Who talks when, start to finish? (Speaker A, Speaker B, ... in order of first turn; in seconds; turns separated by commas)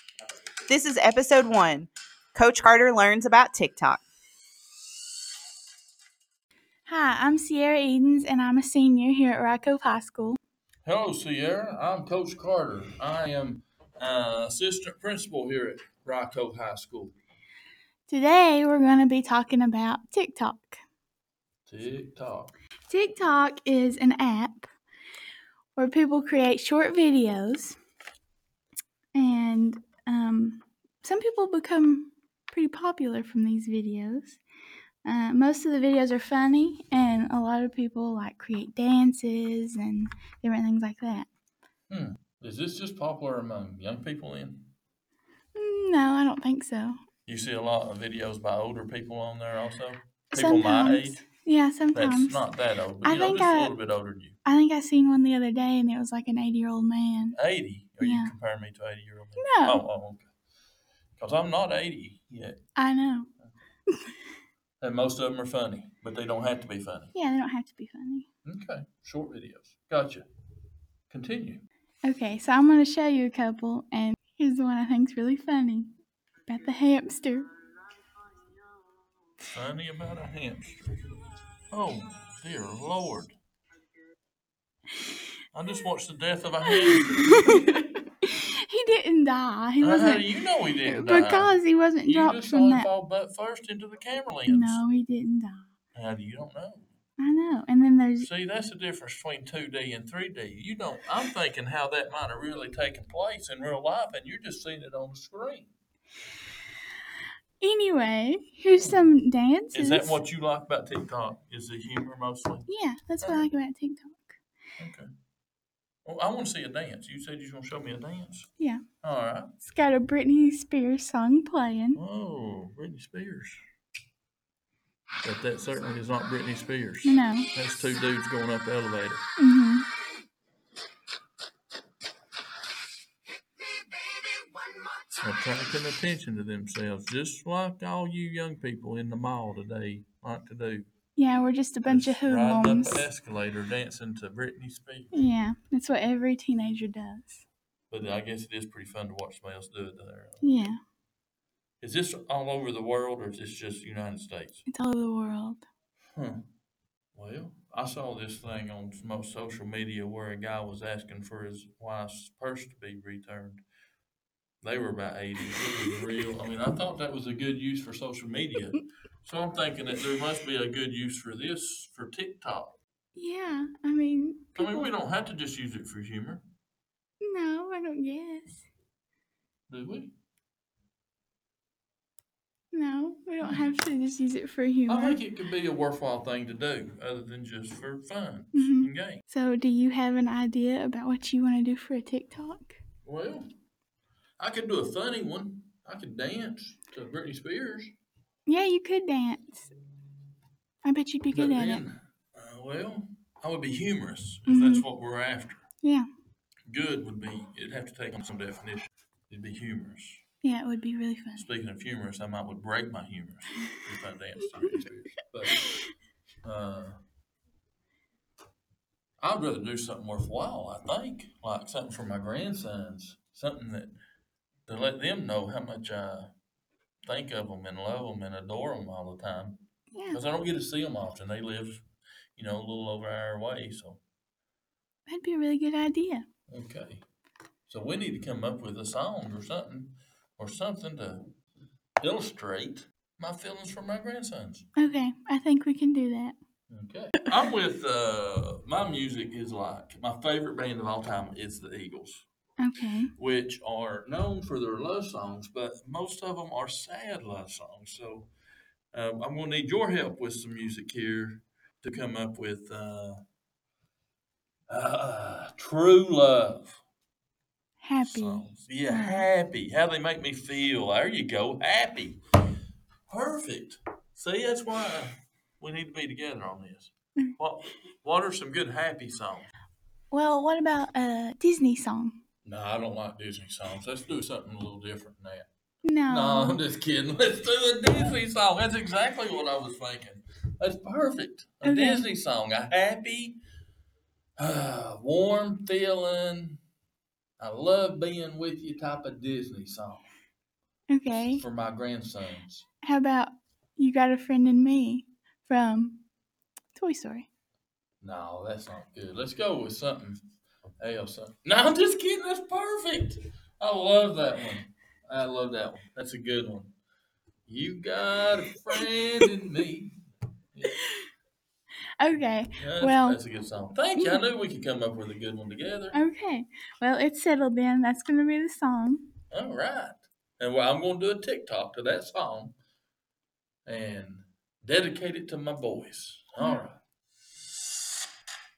Speaker A: 0.7-4.0, Speaker B: 6.8-10.4, Speaker C: 10.8-17.1, Speaker B: 18.1-20.8, Speaker C: 21.6-22.5, Speaker B: 22.9-24.7, Speaker B: 25.8-27.8, Speaker B: 29.1-34.4, Speaker B: 35.0-41.3, Speaker C: 41.9-44.7, Speaker B: 45.5-46.9, Speaker C: 47.2-51.2, Speaker B: 50.3-52.4, Speaker C: 51.9-54.3, Speaker B: 53.0-53.7, Speaker B: 54.4-57.4, Speaker C: 57.3-60.3, Speaker B: 58.0-58.3, Speaker B: 59.4-59.8, Speaker C: 61.2-62.5, Speaker B: 62.8-63.3, Speaker C: 64.8-67.1, Speaker B: 67.1-68.3, Speaker C: 68.4-70.2, Speaker C: 71.1-71.6, Speaker B: 72.0-75.9, Speaker B: 76.5-77.5, Speaker C: 79.5-81.0, Speaker C: 81.7-83.3, Speaker C: 85.5-87.6, Speaker B: 86.7-90.2, Speaker C: 89.8-94.8, Speaker B: 90.8-92.9, Speaker B: 94.5-95.7, Speaker C: 95.9-96.9, Speaker B: 97.2-98.3, Speaker C: 98.2-105.7, Speaker B: 107.6-110.2, Speaker C: 108.8-109.1, Speaker C: 109.7-112.7, Speaker B: 112.7-114.3, Speaker C: 113.2-113.5, Speaker C: 114.8-115.1, Speaker C: 116.0-118.5, Speaker C: 119.0-119.5, Speaker B: 119.6-122.0, Speaker C: 121.9-123.6, Speaker C: 125.2-129.2, Speaker B: 127.0-127.5, Speaker B: 129.4-129.9, Speaker C: 135.1-140.9, Speaker B: 141.1-143.1, Speaker C: 141.8-145.2, Speaker B: 145.1-147.4, Speaker C: 147.9-150.6, Speaker B: 150.4-150.8, Speaker C: 151.8-154.6, Speaker B: 154.7-155.7, Speaker C: 156.1-156.4, Speaker C: 157.1-163.6, Speaker C: 164.6-172.7, Speaker B: 173.1-174.9, Speaker C: 174.6-176.4, Speaker B: 177.2-178.6, Speaker C: 179.7-180.1, Speaker B: 182.7-185.2, Speaker C: 183.4-183.7, Speaker C: 184.9-189.2, Speaker B: 188.5-192.8, Speaker C: 193.0-193.5, Speaker C: 194.4-197.9, Speaker B: 198.4-199.7, Speaker B: 200.8-201.8, Speaker C: 201.3-205.6, Speaker B: 204.4-204.9, Speaker C: 206.7-210.2, Speaker B: 210.4-211.4, Speaker C: 211.3-215.7, Speaker C: 216.4-217.0, Speaker C: 219.2-223.9, Speaker C: 224.7-226.3, Speaker C: 227.0-231.8, Speaker B: 229.9-230.2, Speaker C: 232.3-234.0, Speaker B: 235.1-236.2, Speaker C: 236.5-237.0, Speaker C: 237.7-241.2, Speaker C: 242.0-244.6, Speaker B: 244.8-246.3, Speaker C: 246.7-252.2, Speaker B: 252.6-253.1, Speaker C: 253.2-258.3, Speaker C: 258.9-263.2, Speaker C: 264.7-266.8, Speaker B: 267.8-269.3, Speaker C: 268.0-272.2, Speaker C: 273.1-279.5, Speaker B: 280.1-282.2, Speaker C: 282.4-285.5, Speaker B: 285.8-286.6, Speaker C: 286.1-293.4, Speaker B: 291.6-292.0, Speaker C: 294.4-296.6, Speaker C: 297.4-300.1, Speaker B: 300.9-301.4, Speaker C: 301.2-302.6, Speaker B: 302.8-306.0, Speaker B: 306.7-307.3, Speaker C: 308.0-310.2, Speaker C: 310.8-316.7, Speaker C: 317.5-320.0, Speaker B: 322.0-323.2, Speaker C: 322.6-326.0, Speaker B: 325.9-329.1, Speaker C: 329.3-332.5, Speaker C: 333.6-336.8